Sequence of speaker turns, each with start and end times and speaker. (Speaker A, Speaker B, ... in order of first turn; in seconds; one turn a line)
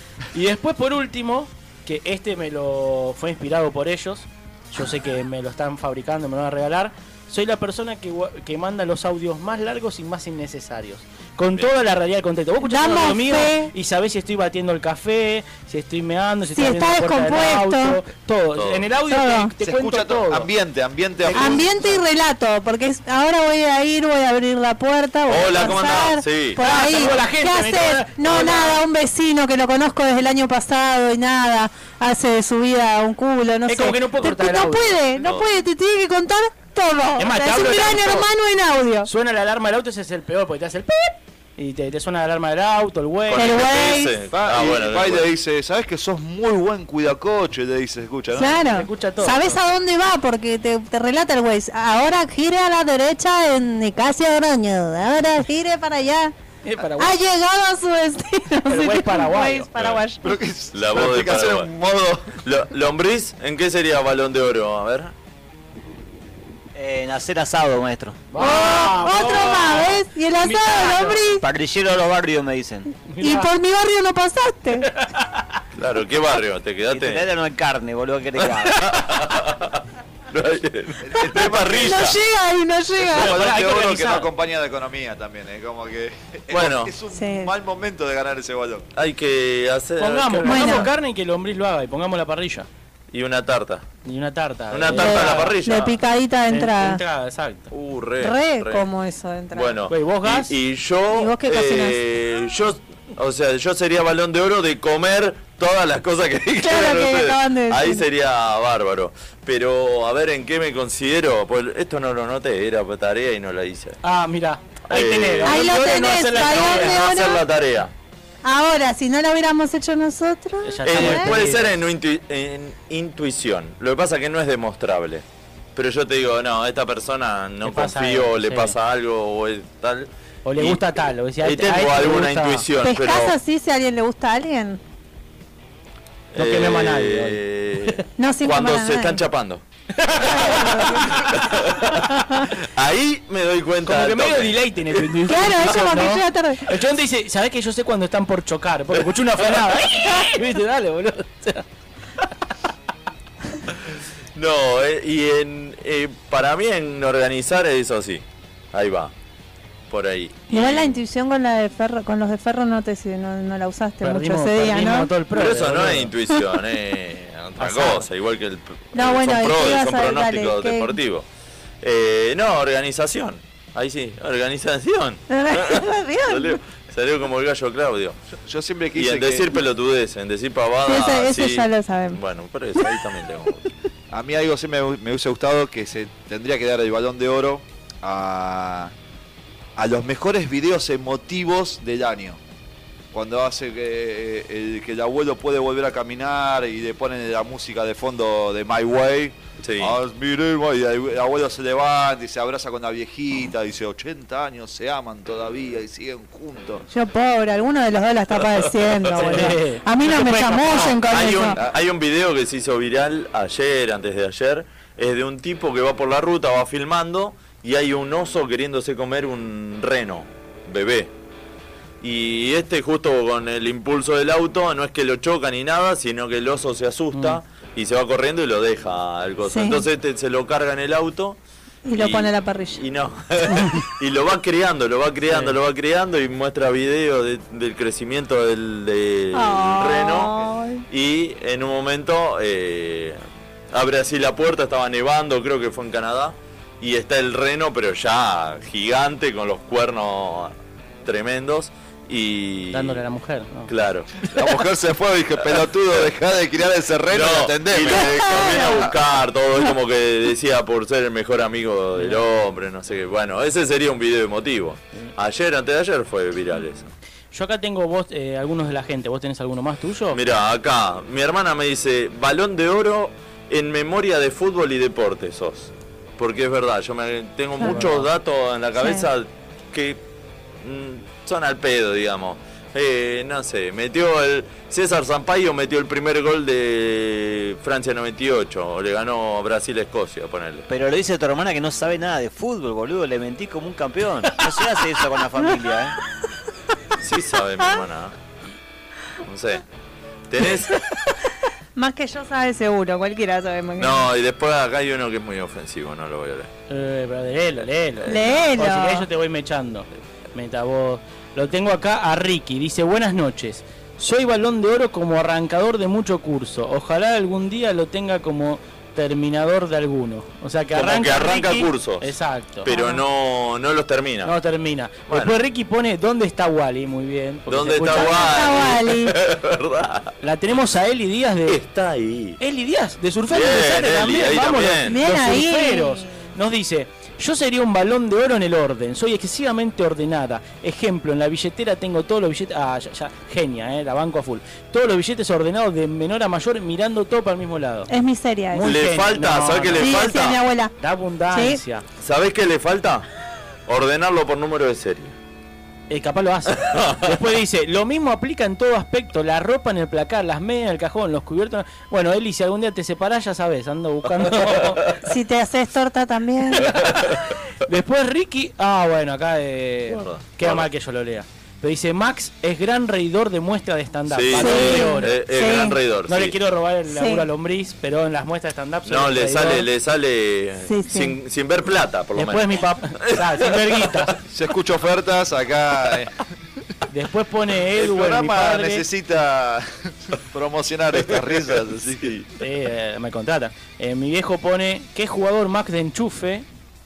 Speaker A: 0.3-20.5
Speaker B: 12.7-13.7
Speaker B: 16.5-18.0
Speaker C: 18.6-18.9
Speaker B: 19.1-19.5
Speaker D: 19.6-21.9
Speaker A: 21.3-21.7
Speaker B: 21.3-39.1
Speaker C: 25.3-27.2
Speaker A: 26.6-28.8
Speaker A: 33.7-35.0
Speaker C: 35.2-35.5
Speaker A: 37.2-38.3
Speaker A: 39.1-43.6
Speaker C: 43.3-45.3
Speaker B: 43.4-44.1
Speaker D: 44.3-48.8
Speaker B: 48.4-56.3
Speaker A: 48.6-49.6
Speaker A: 56.6-57.2
Speaker B: 57.0-60.4
Speaker A: 58.7-59.7
Speaker C: 59.8-60.0
Speaker D: 60.2-62.4
Speaker C: 60.7-61.7
Speaker C: 62.3-65.1
Speaker E: 66.8-68.3
Speaker A: 68.3-71.4
Speaker B: 68.4-71.5
Speaker E: 71.4-72.9
Speaker A: 73.1-73.5
Speaker B: 73.2-74.9
Speaker A: 74.9-75.5
Speaker C: 75.8-77.3
Speaker E: 76.9-78.9
Speaker C: 78.5-82.2
Speaker D: 81.0-82.2
Speaker B: 81.3-83.3
Speaker D: 83.0-88.9
Speaker A: 83.1-84.3
Speaker C: 86.5-86.9
Speaker B: 87.1-87.5
Speaker C: 89.0-90.9
Speaker A: 90.0-92.7
Speaker B: 90.5-90.9
Speaker C: 93.1-93.8
Speaker A: 94.0-95.6
Speaker C: 94.7-96.0
Speaker B: 94.9-97.0
Speaker A: 96.5-97.7
Speaker C: 97.7-98.9
Speaker B: 98.2-99.8
Speaker C: 99.5-114.0
Speaker A: 99.9-100.5
Speaker B: 101.1-102.0
Speaker B: 106.6-108.0
Speaker A: 114.0-117.0
Speaker C: 114.9-117.9
Speaker B: 115.5-117.4
Speaker B: 118.4-121.3
Speaker A: 120.6-121.8
Speaker C: 120.9-130.8
Speaker A: 127.6-128.8
Speaker A: 130.4-132.6
Speaker C: 131.4-133.3
Speaker B: 132.8-134.8
Speaker C: 136.3-139.6
Speaker A: 136.3-138.0
Speaker B: 138.2-139.2
Speaker A: 140.0-141.3
Speaker B: 140.2-141.2
Speaker C: 140.7-145.1
Speaker A: 143.8-151.7
Speaker B: 145.3-146.6
Speaker C: 154.4-159.1
Speaker C: 159.9-161.0
Speaker B: 160.5-165.1
Speaker A: 164.0-166.1
Speaker C: 165.3-171.3
Speaker A: 167.6-168.1
Speaker B: 168.9-171.0
Speaker C: 171.8-178.2
Speaker B: 175.3-176.6
Speaker D: 178.4-179.6
Speaker C: 178.9-183.7
Speaker B: 180.9-182.2
Speaker D: 184.1-188.9
Speaker D: 189.8-192.4
Speaker D: 193.1-206.8
Speaker C: 199.6-200.0
Speaker B: 206.9-211.6
Speaker A: 209.2-211.0
Speaker C: 211.1-221.1
Speaker C: 222.0-231.4
Speaker A: 227.1-227.4
Speaker B: 229.4-229.8
Speaker B: 231.9-232.8
Speaker C: 231.9-240.4
Speaker A: 235.3-235.6
Speaker B: 239.3-240.8
Speaker C: 240.9-243.2
Speaker C: 243.7-250.5
Speaker C: 251.1-253.0
Speaker A: 252.7-253.7
Speaker C: 253.7-254.3
Speaker D: 254.3-258.9
Speaker C: 255.5-256.1
Speaker C: 257.1-266.9
Speaker B: 258.0-258.9
Speaker A: 262.0-262.2
Speaker A: 267.3-270.2
Speaker C: 270.1-280.0
Speaker B: 277.6-277.9
Speaker A: 277.6-278.1
Speaker B: 278.8-279.1
Speaker C: 280.6-290.7
Speaker E: 290.7-296.0
Speaker C: 297.0-298.1
Speaker C: 299.3-299.6
Speaker C: 300.3-300.8
Speaker B: 301.8-304.1
Speaker C: 303.8-306.5
Speaker A: 306.7-322.7
Speaker C: 308.1-308.5
Speaker B: 308.1-309.1
Speaker C: 320.8-322.1
Speaker C: 322.6-324.3
Speaker B: 322.7-323.0
Speaker A: 324.2-328.6
Speaker C: 325.1-325.4
Speaker C: 327.5-330.1
Speaker B: 328.0-329.2
Speaker A: 330.2-331.6
Speaker C: 331.5-332.4
Speaker A: 332.4-347.9
Speaker C: 333.3-335.0
Speaker B: 334.9-336.3
Speaker B: 347.9-348.6
Speaker A: 348.5-350.0
Speaker C: 348.6-350.4
Speaker B: 349.8-350.7
Speaker A: 350.8-351.9
Speaker B: 351.3-351.6
Speaker C: 352.0-353.1
Speaker C: 353.7-355.1
Speaker A: 355.9-364.9
Speaker C: 356.5-357.2
Speaker C: 364.2-364.9
Speaker B: 365.1-366.8
Speaker A: 366.6-375.2
Speaker C: 369.9-370.7
Speaker C: 374.1-376.4
Speaker B: 374.3-375.8
Speaker A: 376.1-379.6
Speaker B: 376.9-377.3
Speaker C: 378.9-384.1
Speaker B: 380.7-381.1
Speaker A: 382.2-384.1
Speaker D: 384.3-386.1
Speaker A: 386.9-388.9
Speaker D: 387.8-392.2
Speaker C: 392.0-392.3
Speaker A: 392.4-396.5